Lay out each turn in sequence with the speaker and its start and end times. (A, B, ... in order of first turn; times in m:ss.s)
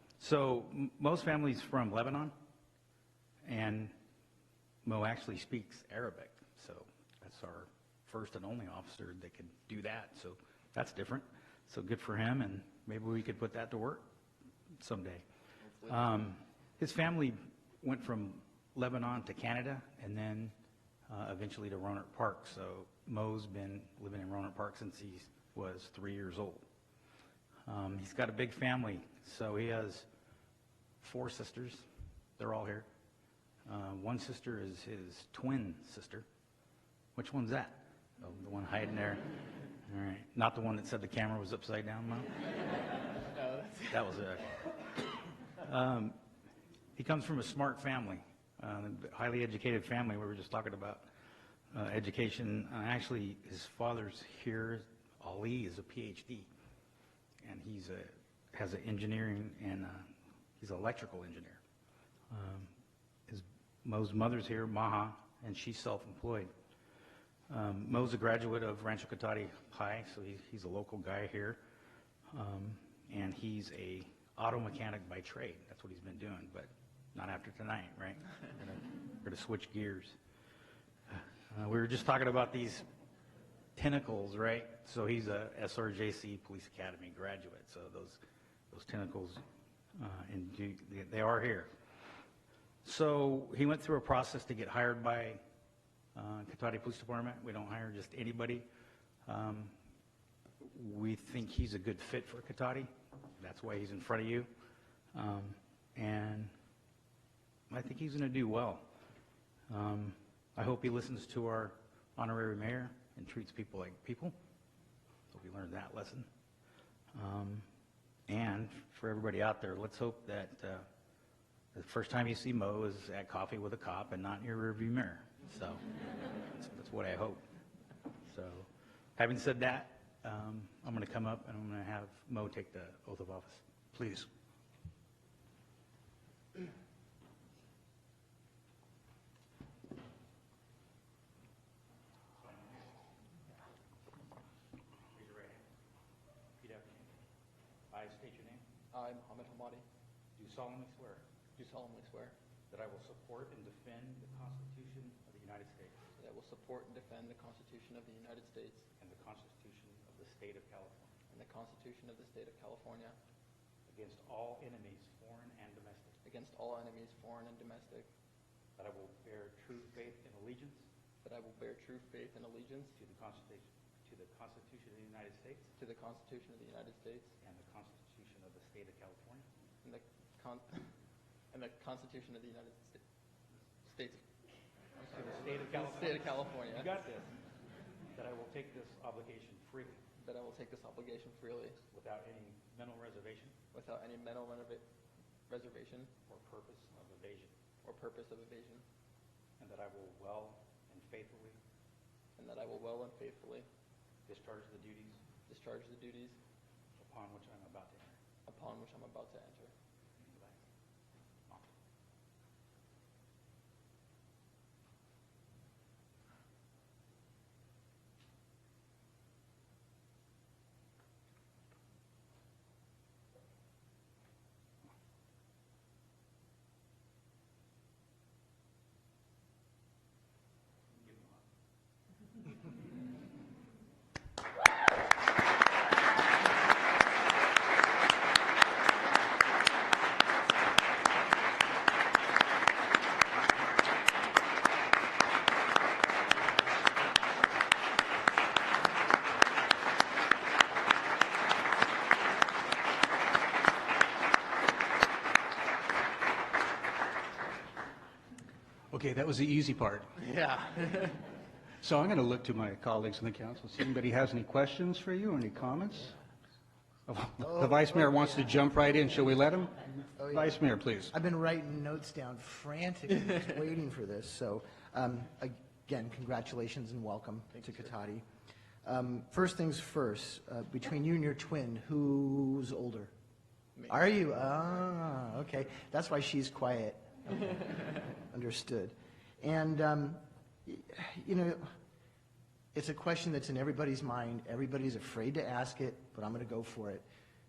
0:00.2-0:02.3 A
0:03.4-0:03.9 A
0:04.8-0:14.0 A
0:14.8-0:15.2 A
0:15.6-0:16.1 B
0:15.9-0:20.5 A
0:21.1-0:26.7 A
0:27.7-0:30.1 A
0:31.0-0:31.9 A
0:32.4-0:32.9 A
0:33.7-0:36.3 A
0:37.2-0:39.2 A
0:39.8-0:42.3 A
0:43.6-0:44.6 A
0:45.5-0:46.2 A
0:47.0-0:51.1 A
0:51.7-0:56.5 A
0:57.4-1:01.6 A
1:02.3-1:02.7 A
1:03.3-1:06.5 A
1:07.5-1:11.6 A
1:12.3-1:20.2 A
1:21.1-1:22.9 A
1:23.8-1:29.4 A
1:30.0-1:31.7 A
1:32.8-1:35.4 A
1:36.2-1:38.7 A
1:39.3-1:39.7 A
1:40.6-1:44.5 A
1:45.1-1:46.5 A
1:47.7-1:48.8 A
1:49.7-1:54.4 A
1:55.3-1:56.3 A
1:57.1-1:57.7 A
1:58.3-2:00.9 A
2:01.7-2:05.8 A
2:06.5-2:07.4 A
2:08.2-2:13.7 A
2:13.9-2:14.3 C
2:22.4-2:22.9 A
2:25.1-2:25.7 A
2:26.6-2:27.1 A
2:27.9-2:28.6 A
2:28.9-2:29.8 B
2:30.4-2:31.2 A
2:31.6-2:32.4 B
2:32.7-2:36.1 A
2:36.2-2:38.9 B
2:39.0-2:41.2 A
2:41.3-2:43.2 B
2:43.9-2:46.2 A
2:46.2-2:48.1 B
2:48.8-2:50.9 A
2:51.2-2:52.9 B
2:53.0-2:55.7 A
2:55.8-2:57.3 B
2:57.4-2:59.5 A
2:59.8-3:00.9 B
3:01.5-3:03.0 B
3:03.8-3:04.2 B
3:05.1-3:07.4 A
3:05.1-3:06.9 B
3:08.1-3:10.0 A
3:10.2-3:11.8 B
3:11.9-3:13.6 A
3:13.7-3:14.8 B
3:15.5-3:16.1 B
3:16.3-3:17.5 A
3:17.8-3:18.8 B
3:19.6-3:21.6 A
3:22.4-3:23.7 B
3:24.3-3:25.2 A
3:25.5-3:26.4 B
3:27.0-3:28.2 A
3:28.5-3:29.7 B
3:30.2-3:30.6 A
3:50.9-3:51.4 A
4:18.9-4:20.2 C
4:20.2-4:21.2 B
4:21.8-4:26.2 C
4:27.1-4:31.1 C
4:27.4-4:28.4 D
4:30.2-4:30.6 D
4:31.1-4:38.2 D
4:38.8-4:43.1 D
4:43.9-4:51.7 D
4:52.7-4:57.0 D